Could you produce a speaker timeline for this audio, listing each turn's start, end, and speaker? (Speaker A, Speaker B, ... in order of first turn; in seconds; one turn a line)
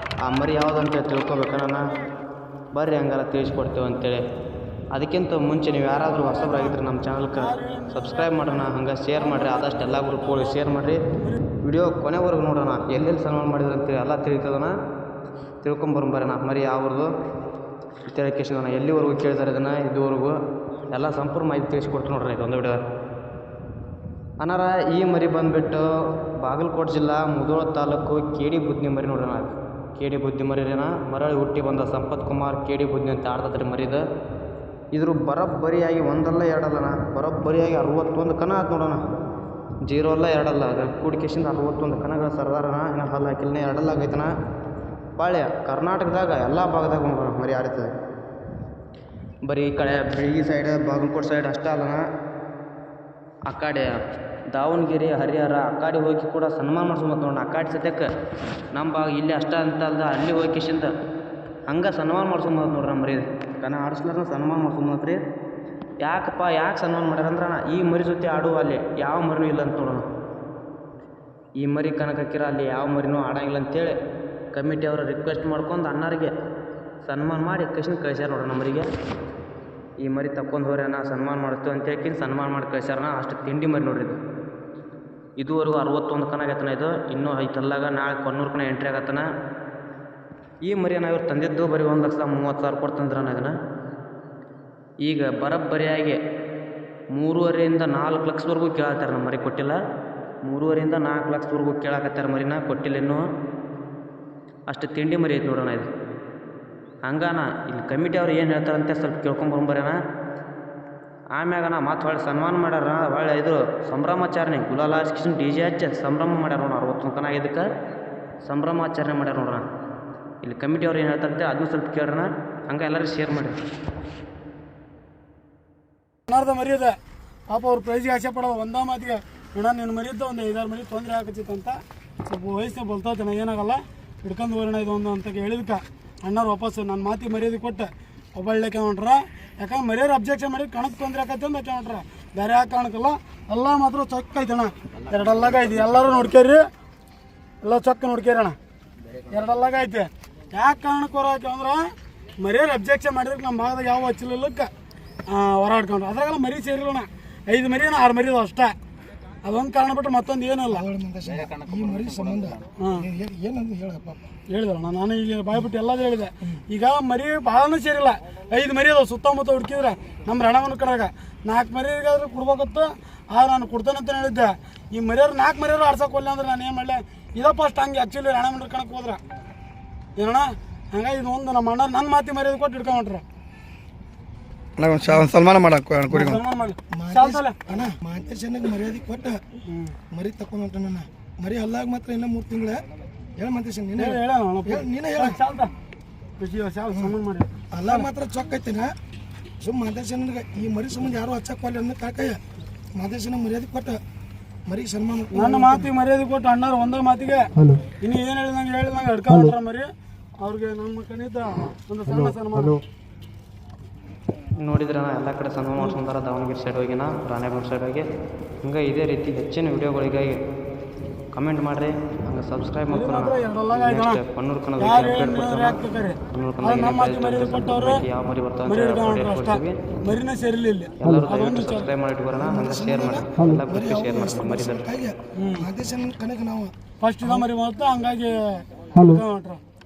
Speaker A: 0.2-1.8
Speaker A: 2.7-4.2
Speaker A: 4.9-11.0
Speaker B: 6.4-6.7
Speaker B: 7.3-10.6
Speaker A: 11.6-14.7
Speaker A: 15.6-17.1
Speaker A: 18.1-20.4
Speaker A: 20.9-22.8
Speaker A: 24.4-25.9
Speaker A: 26.4-34.0
Speaker A: 34.9-39.0
Speaker A: 39.8-44.3
Speaker A: 45.2-47.9
Speaker A: 49.4-52.0
Speaker A: 53.5-53.9
Speaker A: 54.5-58.1
Speaker A: 58.7-60.9
Speaker A: 61.7-65.2
Speaker A: 66.0-70.0
Speaker A: 71.6-73.9
Speaker A: 74.5-76.3
Speaker A: 77.0-78.9
Speaker A: 80.0-84.2
Speaker A: 85.4-89.2
Speaker A: 90.6-93.5
Speaker A: 95.0-96.2
Speaker A: 97.1-99.8
Speaker A: 100.4-103.2
Speaker A: 104.7-105.9
Speaker A: 107.0-110.0
Speaker A: 111.3-117.7
Speaker A: 118.4-119.6
Speaker A: 120.4-123.5
Speaker B: 126.3-126.9
Speaker B: 127.5-131.8
Speaker B: 132.3-146.6
Speaker B: 147.6-148.6
Speaker B: 149.3-151.9
Speaker B: 152.4-154.7
Speaker B: 155.3-158.7
Speaker B: 159.4-160.8
Speaker C: 160.7-164.3
Speaker B: 162.8-163.1
Speaker B: 164.5-179.2
Speaker B: 180.2-183.2
Speaker C: 184.8-189.4
Speaker B: 186.1-187.6
Speaker B: 189.7-189.9
Speaker C: 190.1-192.8
Speaker C: 193.4-195.4
Speaker B: 194.0-195.7
Speaker B: 196.4-198.1
Speaker C: 197.7-198.9
Speaker C: 199.6-202.4
Speaker C: 202.9-204.0
Speaker C: 204.7-205.9
Speaker B: 205.3-207.5
Speaker B: 208.0-209.9
Speaker B: 210.4-212.8
Speaker A: 214.6-218.0
Speaker A: 218.6-220.4
Speaker A: 221.3-225.8
Speaker B: 222.9-224.2
Speaker B: 224.8-228.0
Speaker A: 226.3-229.8
Speaker B: 228.7-231.9
Speaker A: 231.0-234.9
Speaker C: 232.4-236.7
Speaker B: 235.4-235.7
Speaker B: 237.0-239.6